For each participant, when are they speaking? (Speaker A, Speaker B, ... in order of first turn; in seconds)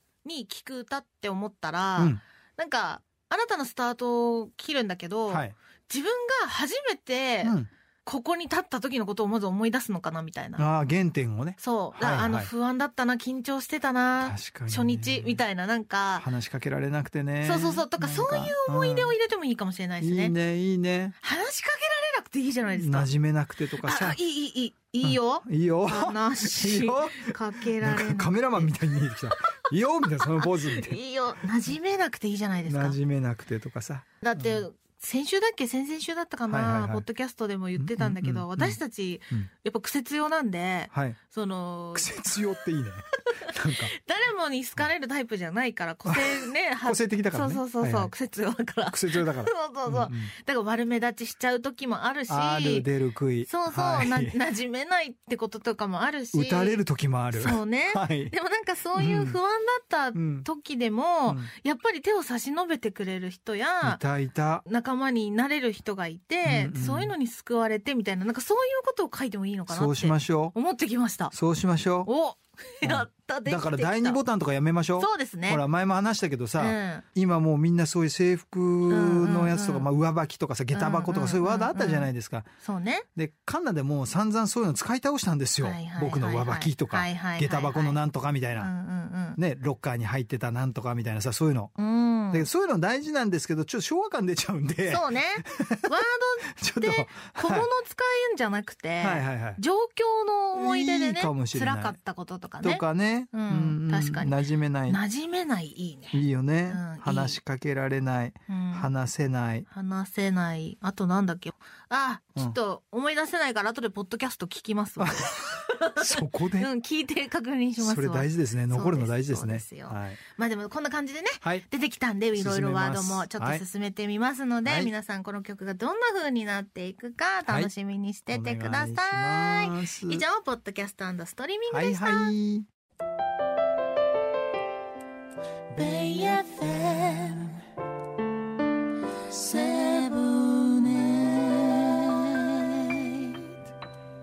Speaker A: 0.2-10.6, 11.6-16.2, 17.4-20.4, 21.2-23.1, 23.8-28.7, 30.1-33.0, 34.2-42.4, 43.4-52.9, 53.5-56.8, 57.3-64.0, 64.6-71.3, 72.1-74.2, 75.0-75.6, 76.6-77.0, 78.9-79.9, 80.7-82.1, 82.6-83.1, 85.6-88.0, 88.6-89.4, 91.8-92.5, 94.9-104.3, 104.9-107.4, 108.5-108.9, 109.7-132.3, 135.7-137.5, 139.3-143.4
Speaker B: 5.3-5.5, 7.4-7.7, 10.6-12.5, 14.2-15.4, 16.2-19.1, 20.0-21.1, 22.8-24.2, 25.0-31.0, 32.7-34.6, 36.5-37.0, 37.8-38.8, 40.9-41.2, 41.9-43.9, 46.1-48.1, 48.9-50.3, 52.3-54.4, 56.3-58.3, 59.0-59.4, 60.1-60.5, 63.8-64.6, 66.5-67.1, 69.7-70.5, 71.3-72.1, 72.8-82.5, 83.2-88.7, 89.4-91.7, 92.3-95.9, 96.5-97.7, 99.0-99.6, 100.5-102.0, 102.6-105.0, 106.1-109.7, 115.0-115.4, 116.0-116.7, 117.8-120.2, 122.4-123.6, 124.6-124.9, 127.5-127.7, 128.3-130.2, 131.7-132.7